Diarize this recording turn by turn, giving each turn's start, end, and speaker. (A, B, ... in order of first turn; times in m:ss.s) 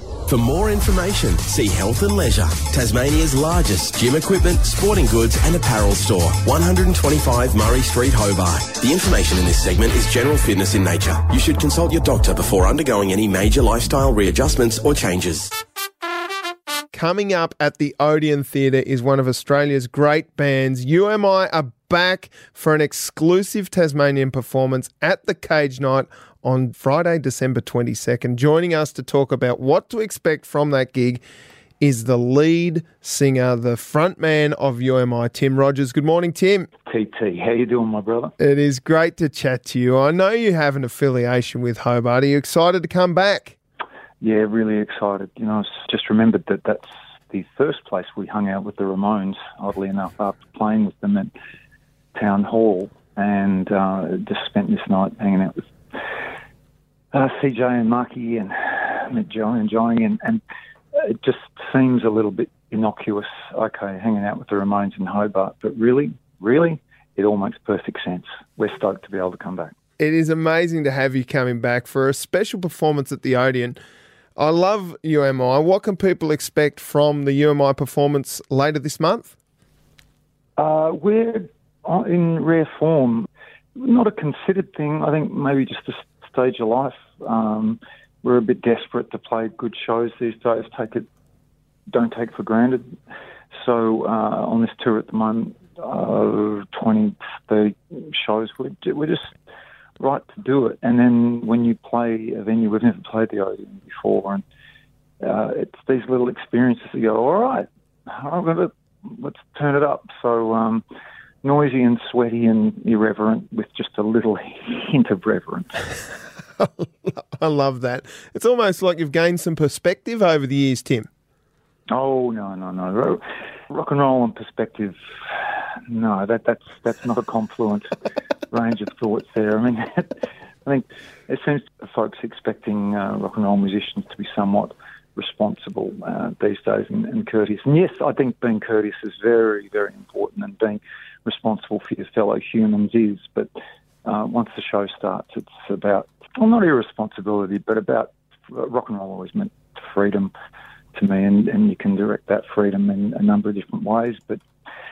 0:00.3-0:15.5 A
0:16.9-0:31.2 B
0:31.8-0:36.7 B
0:36.9-0:38.3 C
0:38.4-0:43.6 B
0:44.2-0:51.3 C
0:52.2-0:55.7 C
0:57.1-1:00.4 C
1:01.0-1:09.7 C
1:10.0-1:13.8 B
1:14.4-1:19.3 B
1:20.6-1:31.1 C
1:31.9-1:33.0 C
1:33.5-1:39.3 C
1:40.0-1:44.4 C
1:45.2-1:50.8 C
1:51.4-1:55.7 C
1:56.6-2:01.1 B
2:01.9-2:07.9 C
2:08.5-2:10.1 C
2:10.7-2:23.5 C
2:24.0-2:30.3 C
2:31.0-2:34.4 C